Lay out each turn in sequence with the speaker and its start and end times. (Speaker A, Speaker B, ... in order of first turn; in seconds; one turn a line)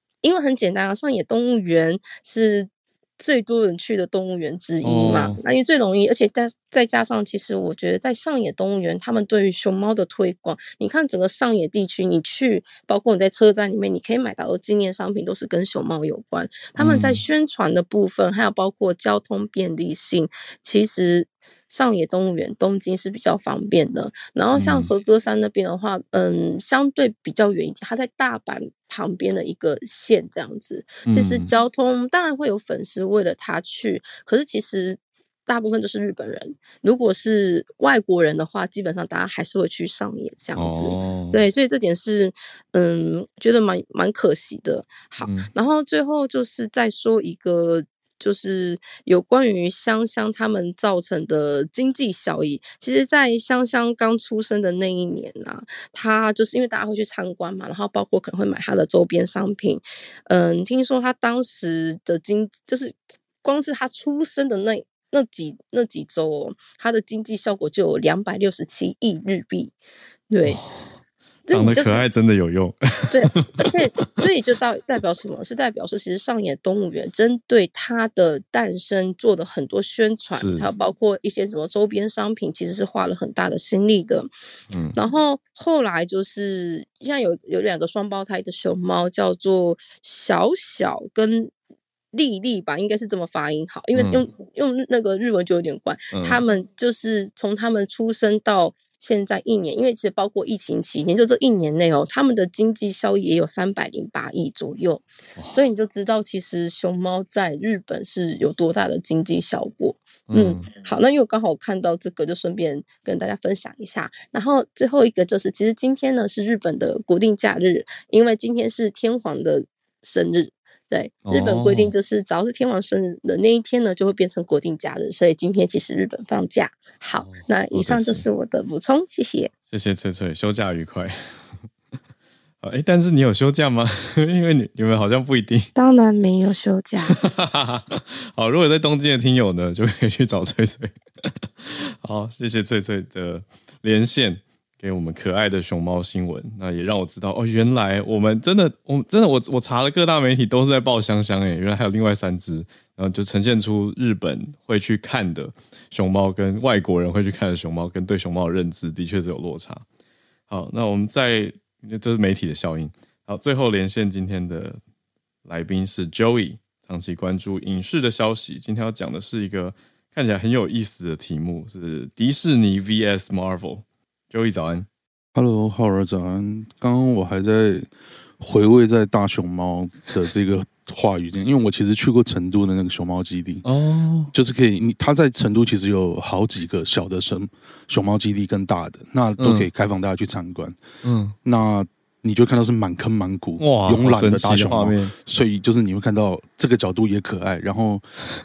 Speaker A: 0.2-2.7
Speaker A: 3.2-69.7
Speaker B: 4.8-5.4
Speaker B: 16.8-17.2
Speaker B: 24.5-24.9
Speaker B: 31.1-31.5
Speaker B: 40.5-41.4
Speaker B: 45.2-45.5
Speaker A: 70.3-70.6
Speaker B: 70.5-70.9
Speaker A: 71.5-72.0
Speaker B: 71.5-74.2
Speaker A: 73.1-84.3
Speaker B: 80.3-80.7
Speaker B: 84.7-85.0
Speaker A: 85.0-91.5
Speaker A: 92.1-129.5
Speaker B: 93.9-94.2
Speaker B: 96.1-96.4
Speaker B: 110.3-110.7
Speaker B: 121.2-121.9
Speaker B: 127.2-128.2
Speaker B: 129.7-131.2
Speaker B: 132.6-135.7
Speaker A: 135.7-137.2
Speaker B: 137.1-159.8
Speaker B: 160.5-164.8
Speaker B: 165.4-174.9
Speaker C: 175.3-177.9
Speaker C: 178.4-183.6
Speaker B: 183.6-184.3
Speaker C: 184.3-190.8
Speaker B: 189.4-189.7
Speaker B: 191.0-191.3
Speaker C: 191.4-198.1
Speaker B: 193.6-195.1